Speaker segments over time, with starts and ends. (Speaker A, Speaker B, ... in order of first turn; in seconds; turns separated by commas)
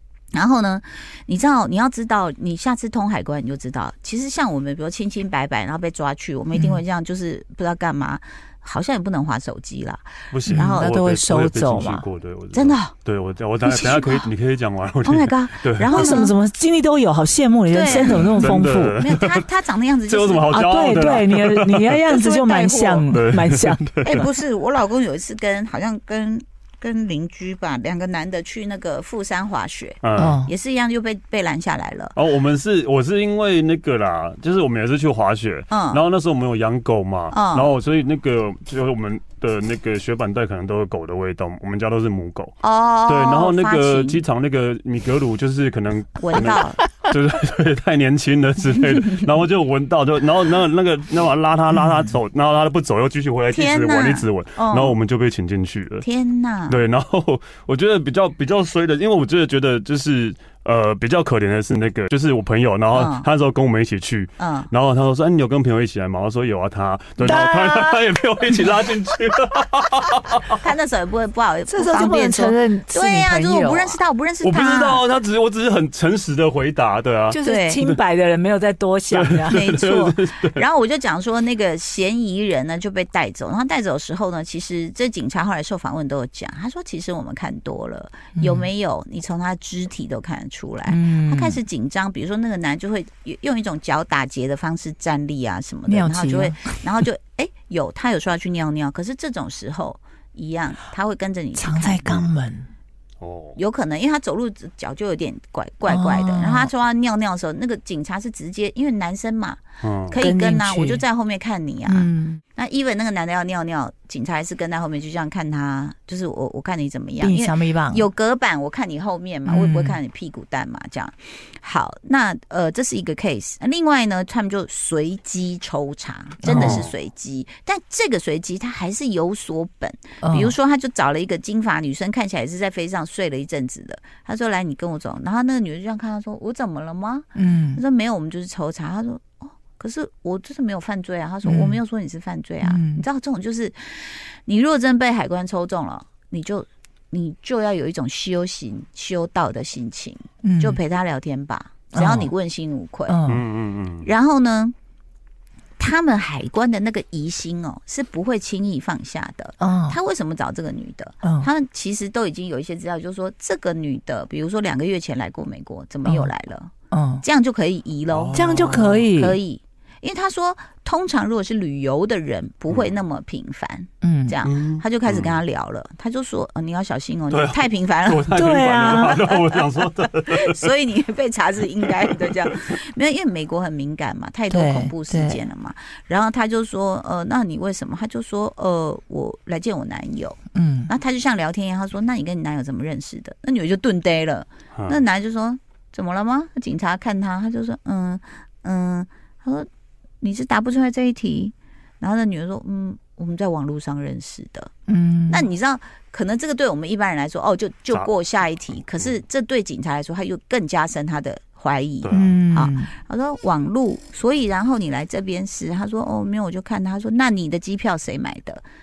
Speaker A: 0.3-11.0, Speaker B: 6.5-6.8, Speaker C: 10.3-16.2, Speaker B: 10.5-12.0, Speaker A: 12.5-12.9, Speaker A: 13.6-14.3, Speaker A: 15.0-16.3, Speaker B: 15.9-19.0, Speaker A: 17.7-21.2, Speaker C: 17.9-19.4, Speaker C: 20.1-22.1, Speaker B: 20.5-23.8, Speaker A: 22.1-23.0, Speaker C: 23.0-24.2, Speaker A: 24.0-32.1, Speaker C: 30.0-30.4, Speaker B: 30.2-30.5, Speaker C: 32.1-56.0, Speaker A: 35.7-36.0, Speaker A: 37.3-37.7, Speaker A: 42.6-44.2, Speaker A: 46.2-46.8, Speaker A: 53.5-55.0, Speaker A: 56.0-56.8, Speaker C: 56.7-70.6, Speaker A: 62.9-63.3, Speaker A: 64.4-64.7, Speaker B: 67.2-68.0, Speaker A: 70.6-75.0, Speaker B: 71.7-74.0, Speaker C: 74.4-78.0, Speaker B: 77.3-80.1, Speaker A: 77.4-77.8, Speaker C: 79.1-80.6, Speaker A: 79.5-102.3, Speaker B: 88.3-88.7, Speaker B: 90.8-91.6, Speaker B: 95.9-97.0, Speaker B: 101.5-102.7, Speaker C: 103.2-103.6, Speaker A: 103.5-153.2, Speaker B: 105.8-106.7, Speaker C: 109.8-110.2, Speaker B: 110.1-111.0, Speaker B: 111.9-112.4, Speaker B: 117.2-118.0, Speaker B: 119.5-120.0, Speaker B: 126.4-126.9, Speaker C: 126.5-126.8, Speaker B: 130.2-130.5, Speaker B: 137.3-137.8, Speaker B: 141.4-141.8, Speaker B: 142.6-143.0, Speaker B: 150.4-150.8, Speaker B: 151.9-152.3, Speaker B: 153.1-153.4, Speaker C: 153.3-154.1, Speaker A: 154.0-154.7, Speaker A: 155.8-178.4, Speaker B: 159.6-160.0, Speaker B: 161.2-161.5, Speaker B: 166.0-166.3, Speaker B: 166.9-167.2, Speaker C: 168.1-169.1, Speaker B: 168.3-169.4, Speaker B: 174.0-174.4, Speaker C: 174.4-175.4, Speaker C: 177.3-180.7, Speaker B: 178.3-179.2, Speaker A: 178.9-179.7, Speaker A: 180.3-199.7, Speaker B: 184.5-185.4, Speaker B: 190.5-190.9, Speaker C: 194.7-195.0, Speaker A: 200.2-204.7, Speaker B: 204.9-205.5, Speaker A: 205.3-218.6, Speaker C: 212.0-212.4, Speaker B: 212.1-212.9